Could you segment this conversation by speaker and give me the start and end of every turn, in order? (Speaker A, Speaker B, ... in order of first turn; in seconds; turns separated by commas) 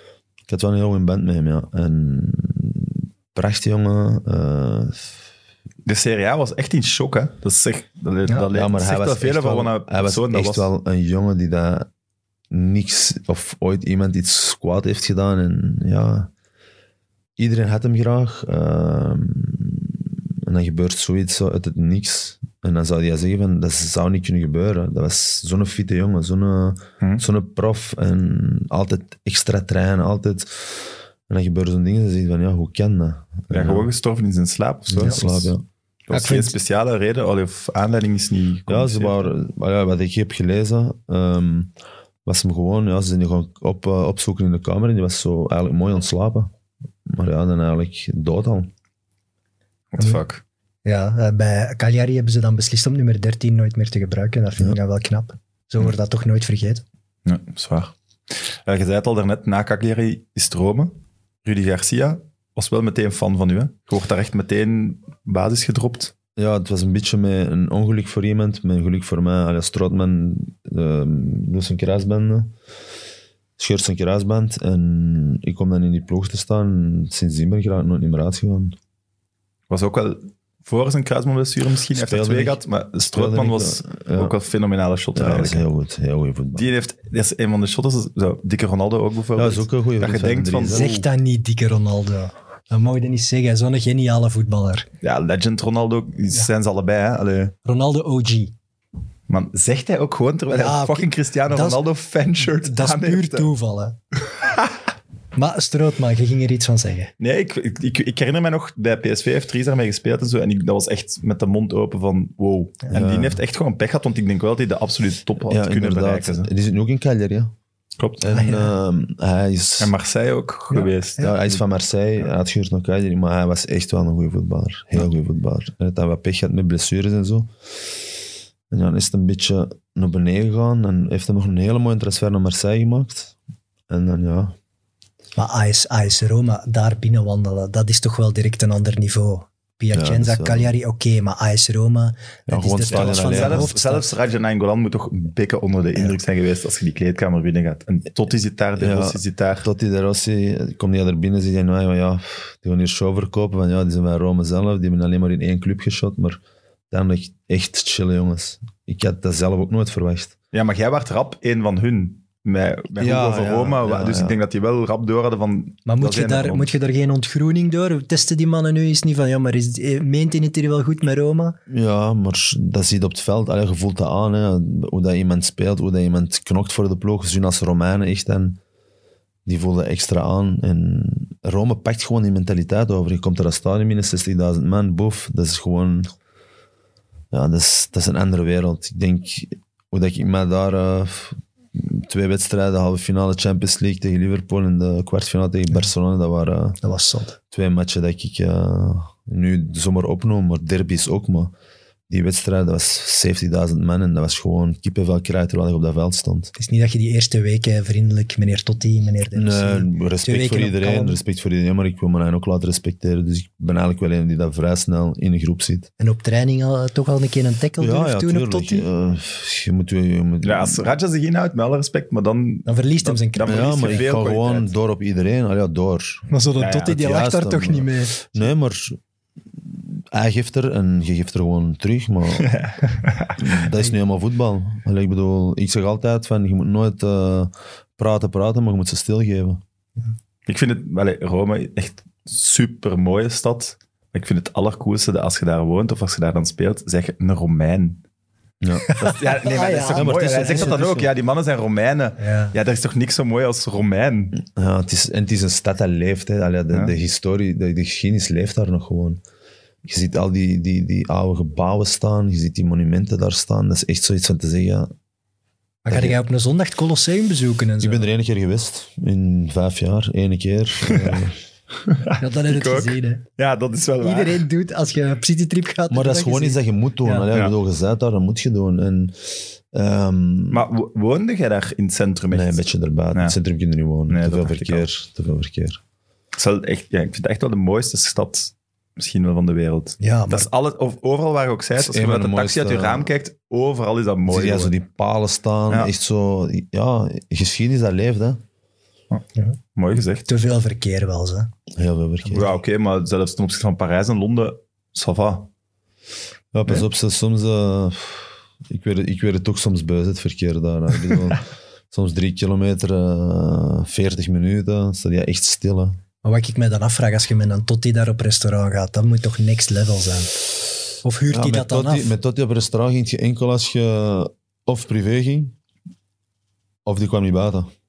Speaker A: 0.5-5.1, Speaker B: 5.9-10.7, Speaker A: 8.5-11.9, Speaker A: 12.5-16.3, Speaker A: 17.4-33.9, Speaker B: 33.5-35.5, Speaker A: 34.9-35.6, Speaker B: 36.1-39.3, Speaker C: 36.1-36.5, Speaker A: 38.7-41.7, Speaker A: 42.2-46.5, Speaker A: 47.1-48.7, Speaker B: 49.9-50.4, Speaker C: 50.9-56.8, Speaker B: 57.3-66.1, Speaker A: 66.4-72.5, Speaker A: 73.6-78.8, Speaker B: 79.7-85.6, Speaker A: 81.9-84.3, Speaker A: 85.2-86.7, Speaker B: 86.5-91.1, Speaker A: 89.3-90.9, Speaker C: 90.7-94.9, Speaker B: 95.0-97.5, Speaker C: 97.7-98.5, Speaker B: 99.3-103.5, Speaker C: 100.5-101.8, Speaker C: 102.4-104.0, Speaker C: 105.3-107.1, Speaker B: 107.2-116.5, Speaker A: 112.9-113.4, Speaker A: 115.4-117.5, Speaker B: 118.0-118.3, Speaker A: 118.2-119.9, Speaker C: 118.3-118.7, Speaker B: 119.8-121.3, Speaker A: 121.2-127.5, Speaker A: 128.7-133.3, Speaker A: 133.9-134.6, Speaker C: 135.4-144.1, Speaker A: 139.9-140.7, Speaker A: 142.5-143.7, Speaker B: 142.9-149.7, Speaker A: 148.8-160.3, Speaker B: 160.5-166.7, Speaker A: 163.0-164.4, Speaker C: 165.9-171.6, Speaker A: 171.7-178.6, Speaker A: 179.5-186.1, Speaker A: 187.3-196.8, Speaker C: 196.8-197.3, Speaker A: 197.5-201.5, Speaker A: 202.1-206.5, Speaker C: 206.6-211.2, Speaker A: 209.3-215.9, Speaker C: 216.0-218.9, Speaker A: 217.8-220.9, Speaker B: 220.4-224.7, Speaker C: 222.7-224.1, Speaker A: 223.4-226.3, Speaker C: 226.3-228.3, Speaker B: 226.6-226.9, Speaker A: 226.9-229.0, Speaker A: 229.7-232.5, Speaker B: 232.4-233.5, Speaker A: 233.4-239.6, Speaker B: 240.5-248.0, Speaker A: 248.6-249.1, Speaker C: 248.8-250.8, Speaker B: 248.9-254.4, Speaker A: 249.9-251.1, Speaker C: 252.2-252.6, Speaker A: 254.4-259.2, Speaker A: 259.9-264.9, Speaker C: 265.9-268.1, Speaker A: 265.9-266.2, Speaker A: 267.8-271.4, Speaker B: 270.9-271.2, Speaker B: 271.9-274.4, Speaker C: 272.2-273.2, Speaker C: 274.0-277.3, Speaker A: 275.9-280.7, Speaker B: 280.5-282.6, Speaker A: 282.3-285.8, Speaker B: 284.1-284.9, Speaker B: 286.4-294.8, Speaker C: 290.0-290.5, Speaker A: 291.8-293.1, Speaker A: 294.3-298.4, Speaker B: 299.8-300.3, Speaker C: 300.3-301.5, Speaker A: 301.7-302.5, Speaker B: 302.3-305.5, Speaker A: 306.5-316.0, Speaker C: 316.2-320.3, Speaker C: 321.0-322.1, Speaker A: 321.3-325.6, Speaker A: 326.9-327.7